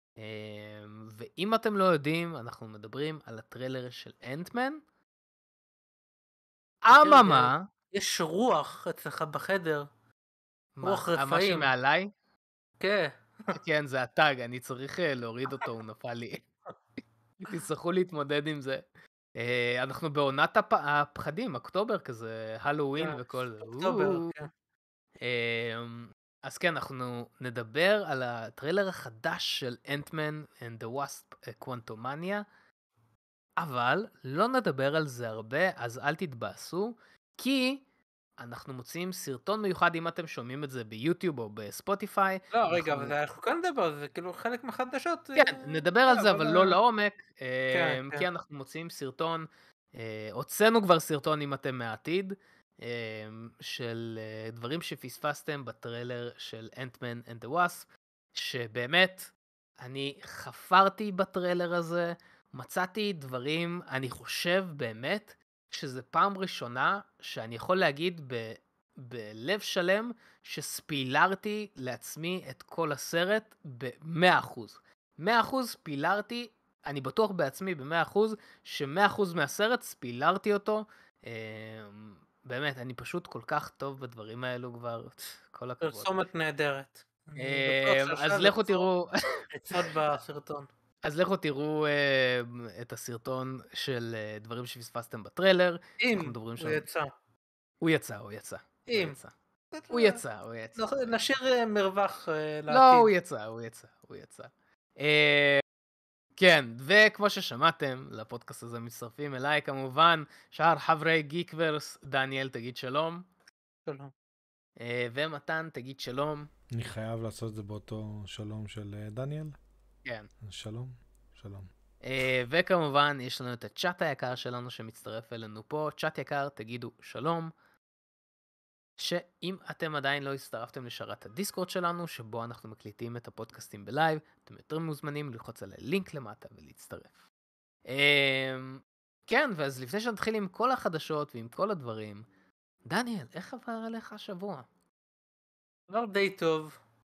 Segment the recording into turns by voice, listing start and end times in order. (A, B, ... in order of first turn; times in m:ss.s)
0:00.2-0:04.8 A
0:06.9-0:07.7 A
0:07.0-0:09.9 B
0:10.8-0:12.1 A
0:10.8-0:11.7 B
0:12.8-0:13.5 B
0:13.5-0:16.5 A
0:17.4-0:18.8 A
0:19.4-0:24.4 A
0:23.0-0:24.5 B
0:25.2-0:32.4 A
0:33.6-0:37.8 A
0:38.4-0:43.1 A
0:42.5-0:46.8 B
0:45.4-1:26.1 A
0:47.7-0:48.3 B
1:25.8-1:28.9 B
1:27.4-1:29.9 A
1:29.5-1:30.7 B
1:31.0-1:36.8 A
1:36.0-1:37.1 B
1:37.8-1:39.3 A
1:38.9-1:39.2 B
1:39.7-1:40.2 B
1:39.9-1:41.1 A
1:40.8-1:43.1 B
1:42.7-1:45.6 A
1:46.4-1:53.3 A
1:53.9-1:54.1 B
1:54.8-1:56.5 A
1:56.7-1:59.6 C
2:00.4-2:01.7 C
2:02.0-2:07.5 A
2:09.0-2:17.1 A
2:17.9-2:22.2 A
2:22.9-2:24.7 A
2:25.9-2:26.8 B